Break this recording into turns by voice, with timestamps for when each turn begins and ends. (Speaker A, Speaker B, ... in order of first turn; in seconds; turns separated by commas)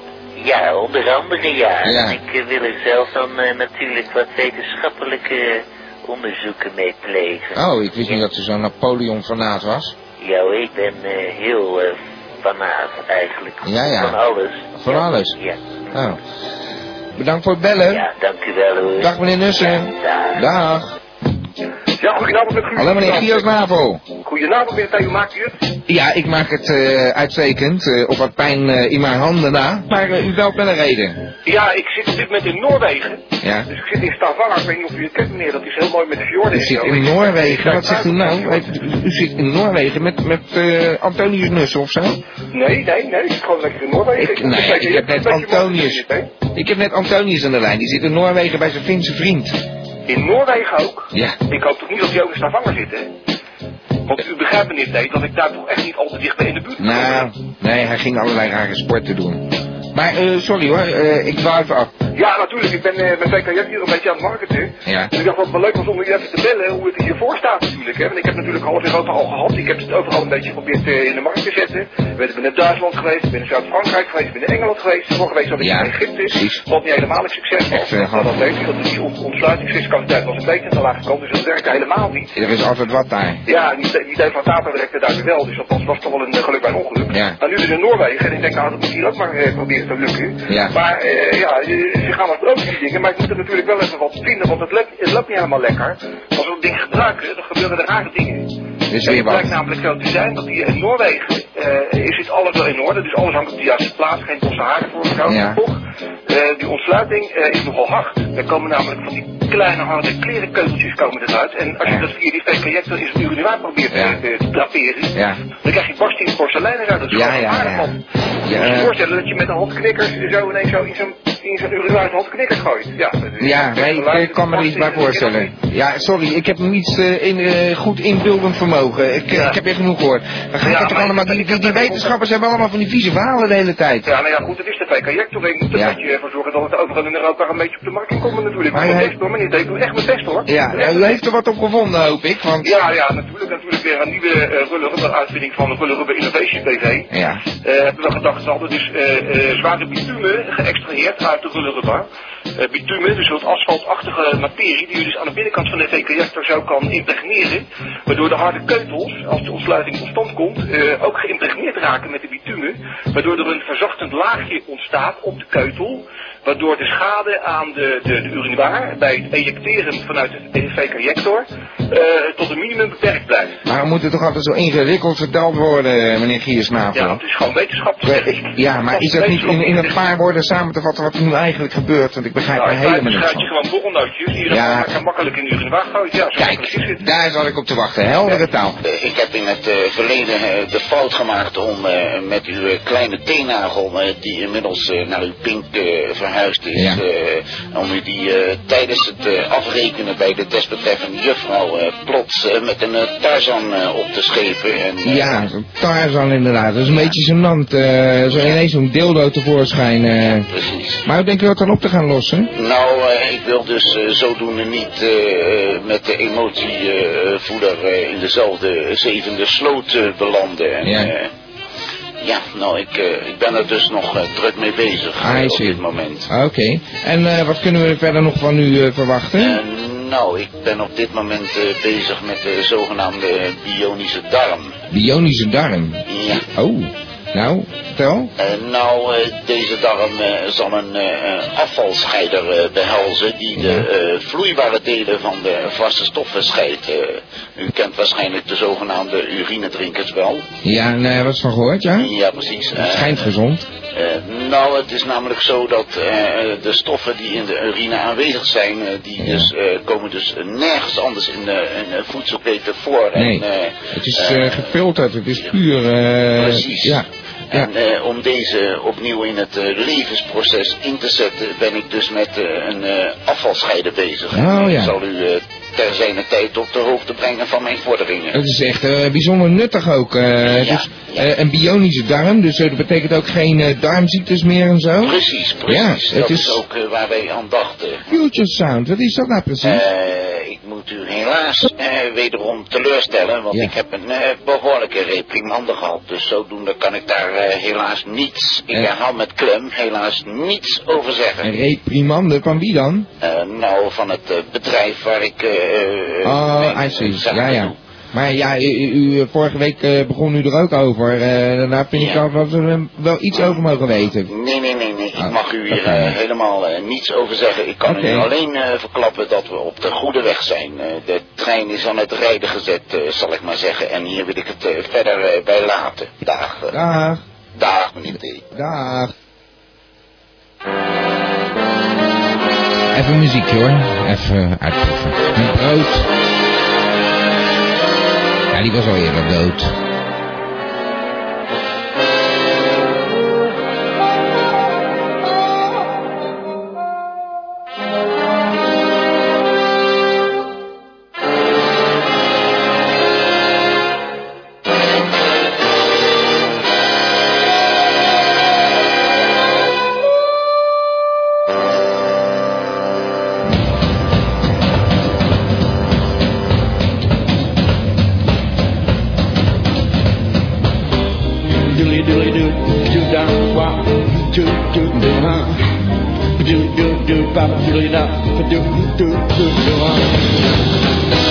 Speaker A: 0.4-8.2, Speaker B: 1.8-2.2, Speaker B: 7.5-9.9, Speaker A: 10.2-15.6, Speaker B: 13.6-14.2, Speaker B: 14.7-15.4, Speaker B: 15.9-16.2, Speaker B: 17.2-18.1, Speaker A: 17.9-20.4, Speaker B: 18.9-20.9, Speaker C: 22.0-23.5, Speaker B: 22.8-24.0, Speaker C: 24.2-25.5, Speaker B: 25.9-31.2, Speaker C: 31.4-38.6, Speaker B: 33.4-33.7, Speaker B: 36.5-42.2, Speaker C: 42.5-46.3, Speaker B: 44.2-46.0, Speaker B: 46.5-49.6, Speaker C: 50.1-53.1, Speaker B: 51.1-51.4, Speaker C: 54.1-57.3, Speaker B: 56.8-61.9, Speaker C: 62.1-82.3, Speaker B: 64.8-65.1, Speaker B: 75.6-76.6, Speaker B: 77.7-78.4, Speaker B: 82.3-83.4, Speaker C: 83.5-98.5, Speaker B: 87.1-87.4, Speaker B: 90.5-90.7, Speaker B: 98.9-99.5, Speaker C: 99.0-125.5, Speaker B: 105.2-105.6, Speaker B: 113.9-114.2, Speaker B: 115.1-115.4, Speaker B: 117.1-117.9, Speaker B: 118.5-119.0, Speaker B: 123.4-134.1, Speaker C: 129.3-129.6, Speaker C: 130.6-132.2, Speaker C: 134.0-141.2, Speaker B: 138.7-139.1, Speaker B: 140.4-142.7, Speaker C: 142.6-147.1, Speaker B: 147.1-147.4, Speaker C: 147.6-152.1, Speaker C: 152.6-173.6, Speaker B: 173.7-177.2, Speaker C: 176.9-180.0, Speaker B: 178.0-183.5, Speaker C: 182.5-187.0, Speaker B: 184.5-184.9, Speaker B: 186.3-188.8, Speaker D: 188.8-205.4, Speaker B: 196.7-197.0, Speaker B: 205.0-210.5, Speaker D: 208.3-208.6, Speaker D: 210.3-211.0, Speaker B: 211.0-212.5, Speaker D: 212.5-221.3, Speaker B: 220.8-221.1, Speaker D: 222.2-226.3, Speaker B: 225.2-229.6, Speaker D: 229.4-234.7, Speaker B: 234.9-238.3, Speaker D: 236.1-236.4, Speaker D: 238.4-250.4, Speaker B: 243.6-243.9, Speaker B: 250.6-252.1, Speaker D: 251.9-253.3, Speaker B: 252.7-253.7, Speaker D: 253.9-264.7, Speaker B: 259.2-259.5, Speaker B: 263.1-267.7, Speaker D: 266.4-278.4, Speaker B: 274.3-274.9, Speaker B: 278.3-286.6, Speaker D: 280.4-281.2, Speaker D: 285.0-288.1, Speaker B: 288.1-289.8, Speaker D: 289.6-301.5, Speaker B: 301.4-303.1, Speaker D: 303.2-307.8, Speaker B: 306.2-314.3, Speaker D: 311.9-312.2, Speaker D: 313.3-313.6, Speaker D: 314.3-326.7, Speaker B: 315.1-316.2, Speaker B: 317.8-318.3, Speaker B: 326.7-327.2, Speaker D: 327.6-328.4, Speaker B: 328.5-329.1, Speaker B: 332.9-336.1, Speaker B: 338.5-339.7, Speaker E: 371.7-375.6, Speaker E: 376.4-380.0